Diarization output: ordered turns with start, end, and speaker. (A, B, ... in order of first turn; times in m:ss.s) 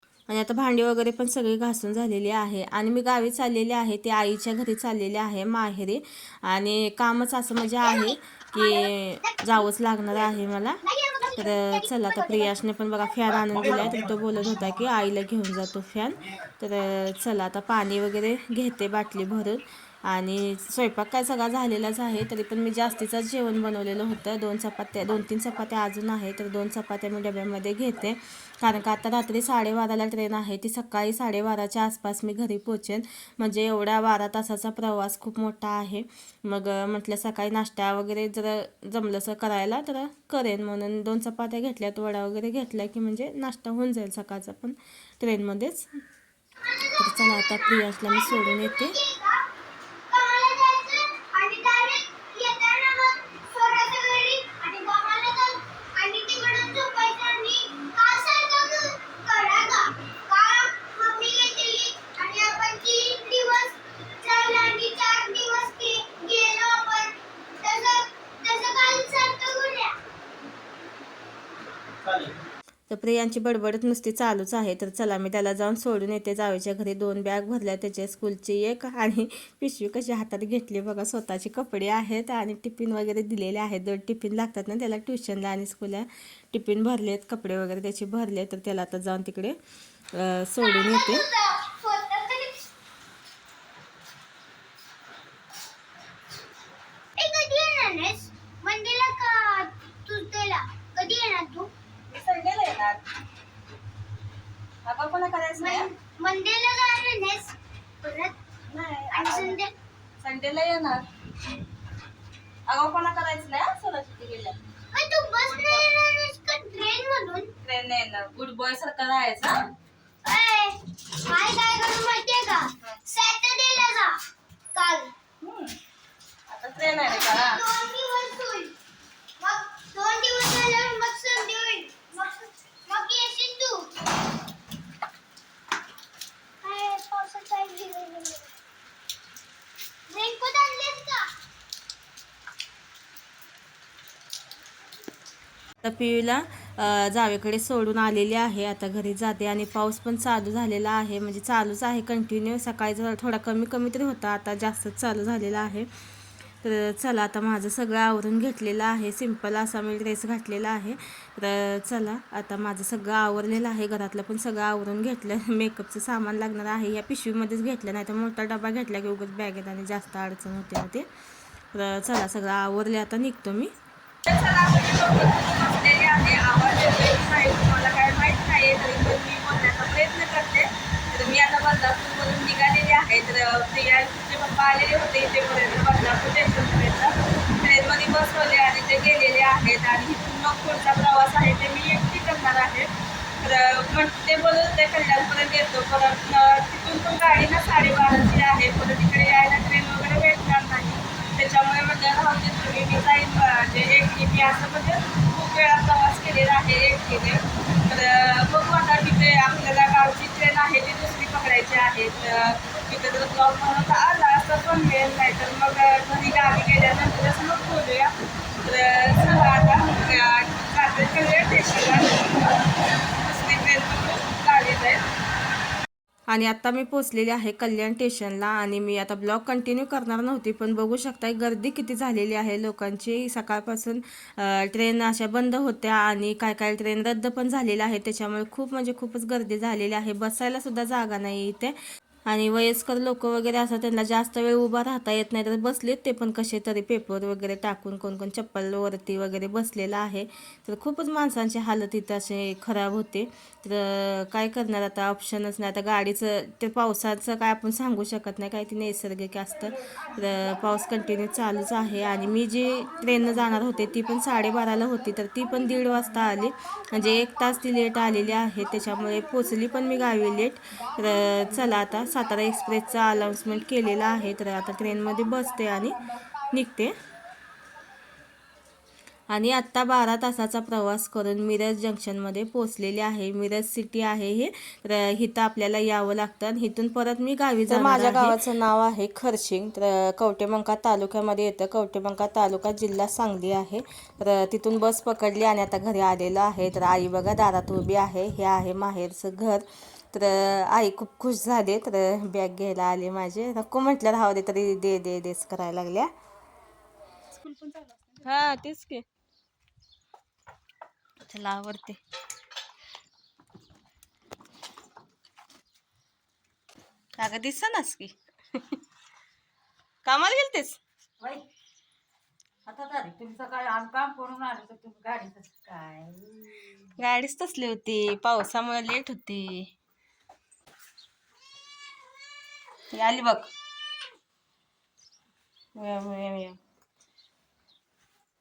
0:00.3-0:10.8 A
0:07.8-0:09.7 B
0:10.8-0:12.6 B
0:11.4-0:45.9 A
0:46.7-0:49.4 B
0:47.0-0:49.0 A
0:50.1-1:10.0 B
1:12.9-1:29.6 A
1:30.1-1:31.2 A
1:30.6-1:32.7 B
1:37.2-1:41.7 B
1:42.1-1:43.0 C
1:44.8-1:45.9 C
1:45.6-1:48.4 B
1:48.7-1:49.6 C
1:49.1-1:49.7 B
1:50.2-1:51.0 C
1:52.7-1:54.6 C
1:54.9-1:57.5 B
1:55.5-1:55.8 C
1:57.6-1:59.6 C
2:00.2-2:04.2 B
2:04.8-2:05.1 B
2:05.4-2:05.7 C
2:06.5-2:07.6 C
2:07.1-2:08.8 B
2:09.4-2:13.8 B
2:16.6-2:18.5 B
2:20.1-2:21.3 B
2:25.8-2:35.9 A
2:36.6-2:51.1 A
2:51.7-2:53.7 A
2:54.3-3:12.9 C
3:13.4-3:42.6 C
3:43.2-3:45.0 C
3:46.3-4:01.8 A
4:02.3-4:36.9 A
4:19.9-4:20.2 D
4:39.3-5:06.1 A
4:47.7-4:48.3 C
5:07.3-5:08.4 D
5:08.3-5:09.0 A
5:11.3-5:12.0 A
5:17.2-5:18.1 A
5:20.1-5:20.8 A
5:22.7-5:26.9 D
5:27.0-5:29.7 A
5:33.0-5:33.4 A
5:35.8-5:36.6 A